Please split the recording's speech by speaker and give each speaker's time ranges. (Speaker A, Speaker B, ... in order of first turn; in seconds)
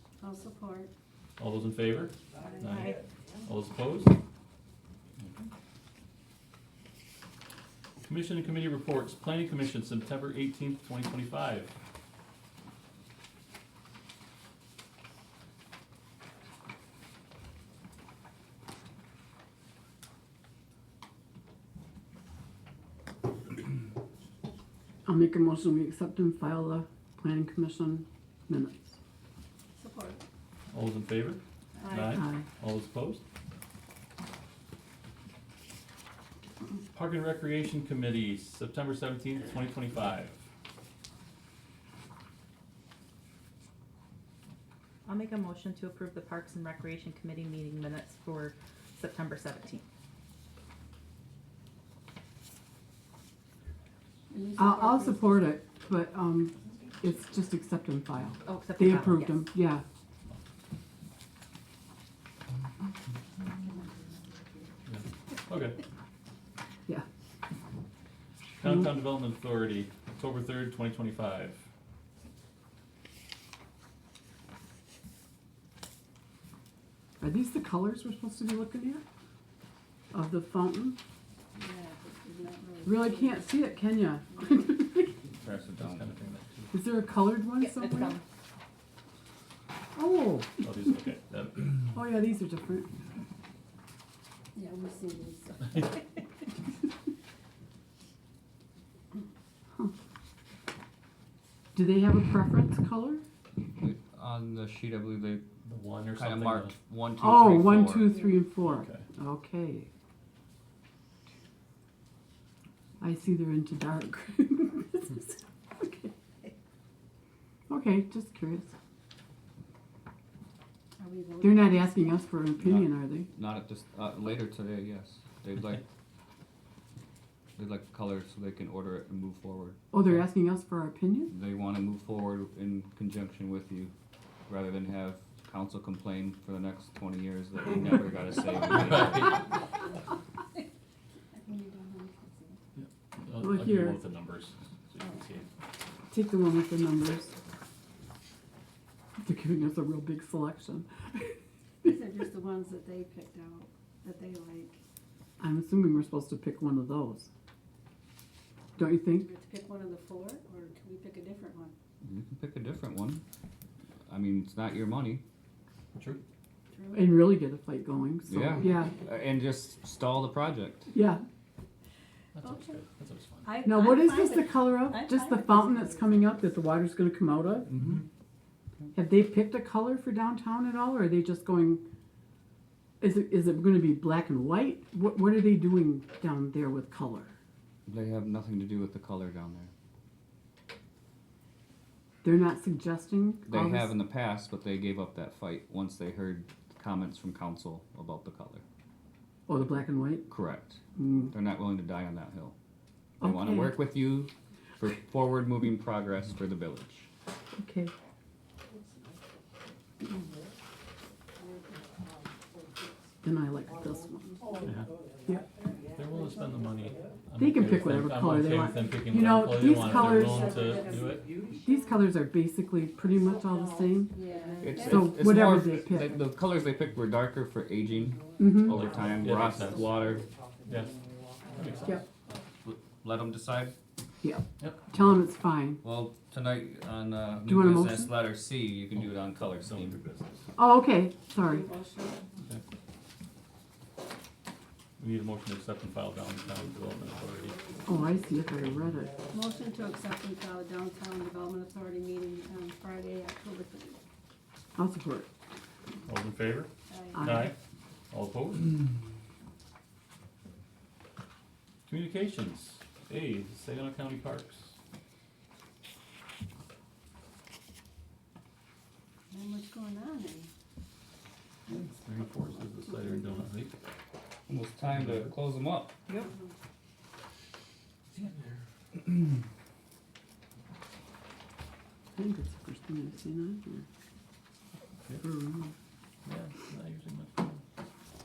Speaker A: 0.2-0.9, 29.8-30.2, 31.8-32.1, 54.3-55.5, 81.5-84.4, 94.5-96.1, 108.0-108.5, 121.0-122.4, 141.3-142.6, 151.8-154.8, 159.0-161.7, 166.7-167.4, 172.4-172.8, 173.4-176.5, 219.7-221.1, 224.2-224.9, 241.3-242.2, 249.3-254.0, 256.9-257.3, 269.3-270.5
Speaker B: 1.4-4.2, 5.2-5.5, 8.1-11.7, 30.7-33.2, 36.9-40.4, 64.8-65.8, 68.6-71.6, 85.8-86.7, 90.6-91.9, 105.6-106.8, 108.6-109.1, 138.7-139.4, 142.7-145.5, 172.3-173.6, 177.8-178.0, 214.6-214.9, 215.9-221.3, 228.6-229.9, 230.6-230.9, 231.5-232.0, 234.6-234.9, 238.9-240.5, 245.0-247.8, 256.1-257.6, 258.1-258.8, 261.9-264.7, 271.7-273.7, 274.9-275.3, 286.2-287.6
Speaker C: 2.6-3.0, 45.0-49.8, 58.4-59.5, 87.6-88.2
Speaker D: 25.0-29.0, 32.1-32.5, 54.6-59.8, 77.2-79.0, 80.1-81.0, 82.8-85.2, 86.7-88.2, 89.9-90.7, 91.9-92.9, 101.7-103.2, 107.2-109.9, 113.0-116.1, 117.7-118.7, 121.4-123.3, 129.9-131.3, 143.4-144.0, 146.1-147.3, 149.2-151.3, 155.4-157.3, 158.8-159.3, 166.9-168.9, 170.9-171.2, 173.6-177.7, 178.9-181.8, 183.0-187.3, 192.2-193.9, 199.5-200.3, 200.9-201.3, 203.2-203.8, 207.5-207.9, 213.2-214.4, 217.4-220.8, 221.6-224.2, 224.8-226.3, 228.4-228.8, 234.2-235.8, 237.4-238.2, 240.6-241.6, 247.8-249.2, 254.8-255.3, 257.1-257.5, 282.1-283.8, 285.2-285.7
Speaker E: 85.4-86.1, 103.7-105.5, 106.1-108.2, 122.6-125.8, 127.6-129.8, 131.3-133.9, 134.5-139.4, 162.0-163.2, 164.1-165.2, 168.3-170.9, 177.7-178.0, 187.8-189.7, 193.5-198.6, 200.3-202.5, 203.2-207.1, 224.6-230.2, 232.6-233.7, 235.8-240.0, 274.5-276.1